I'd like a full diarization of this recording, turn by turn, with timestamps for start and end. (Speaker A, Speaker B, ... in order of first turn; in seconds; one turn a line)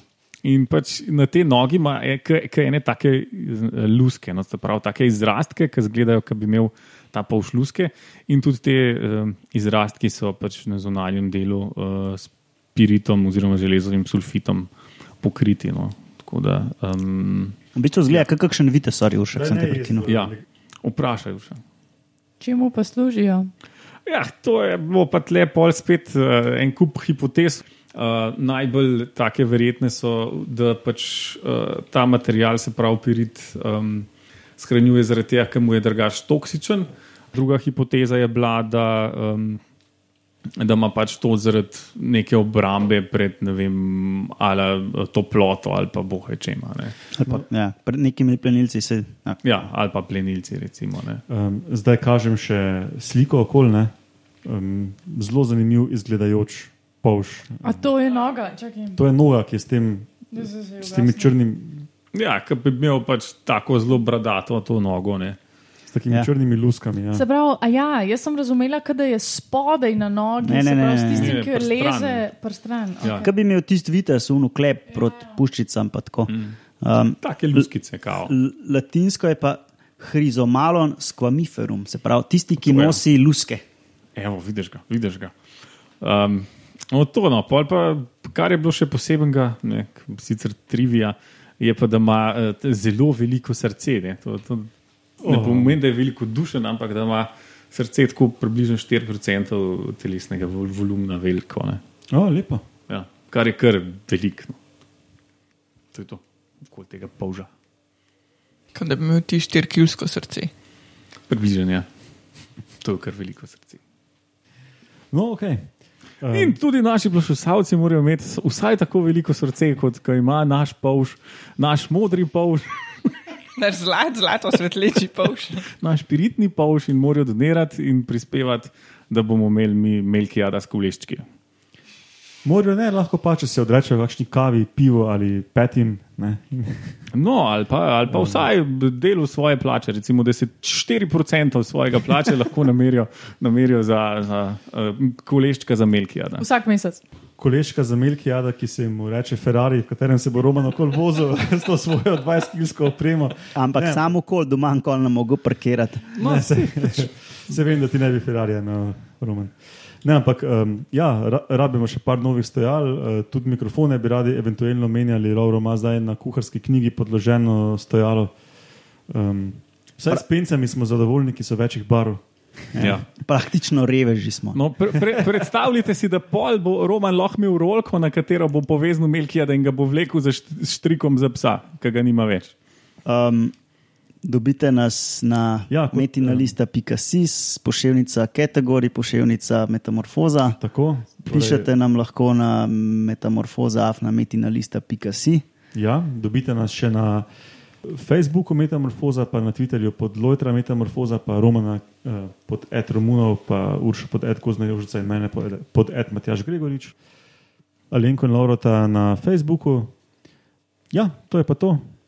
Speaker A: 0.4-14.7
Speaker A: 15.2-17.6
Speaker B: 17.8-20.1
Speaker C: 19.3-20.4
Speaker A: 20.0-21.6
Speaker D: 22.4-23.5
Speaker A: 24.1-39.6
Speaker A: 40.5-46.9
Speaker B: 47.1-49.4
Speaker A: 49.4-51.2
Speaker C: 51.3-53.9
Speaker C: 54.4-57.9
Speaker D: 57.6-59.0
Speaker C: 59.0-61.9
Speaker D: 60.3-61.3
Speaker A: 62.1-65.4
Speaker C: 65.9-67.2
Speaker D: 67.1-73.3
Speaker B: 70.4-71.4
Speaker A: 71.1-72.2
Speaker A: 73.0-73.3
Speaker B: 73.2-77.7
Speaker A: 76.3-76.6
Speaker A: 77.2-78.3
Speaker B: 78.2-83.6
Speaker A: 82.6-83.0
Speaker A: 84.2-85.3
Speaker A: 86.0-101.8
Speaker C: 95.2-95.8
Speaker C: 102.1-102.6
Speaker A: 102.9-104.6
Speaker A: 105.9-107.5
Speaker E: 108.7-110.5
Speaker A: 111.3-111.9
Speaker A: 112.8-113.8
Speaker C: 115.1-116.6
Speaker A: 116.3-123.1
Speaker E: 123.5-125.7
Speaker A: 125.8-131.2
Speaker C: 132.4-136.9
Speaker A: 137.1-146.4
Speaker C: 138.1-138.5
Speaker D: 146.4-147.0
Speaker C: 147.4-154.1
Speaker B: 153.5-156.1
Speaker A: 156.1-157.1
Speaker C: 156.2-168.3
Speaker C: 169.1-173.0
Speaker B: 172.8-174.6
Speaker A: 172.8-173.1
Speaker A: 174.5-182.5
Speaker B: 183.0-183.5
Speaker B: 184.2-190.6
Speaker C: 185.7-186.5
Speaker C: 190.6-191.7
Speaker B: 191.2-195.4
Speaker C: 195.7-197.2
Speaker C: 197.8-206.9
Speaker C: 207.9-209.9
Speaker C: 210.9-211.9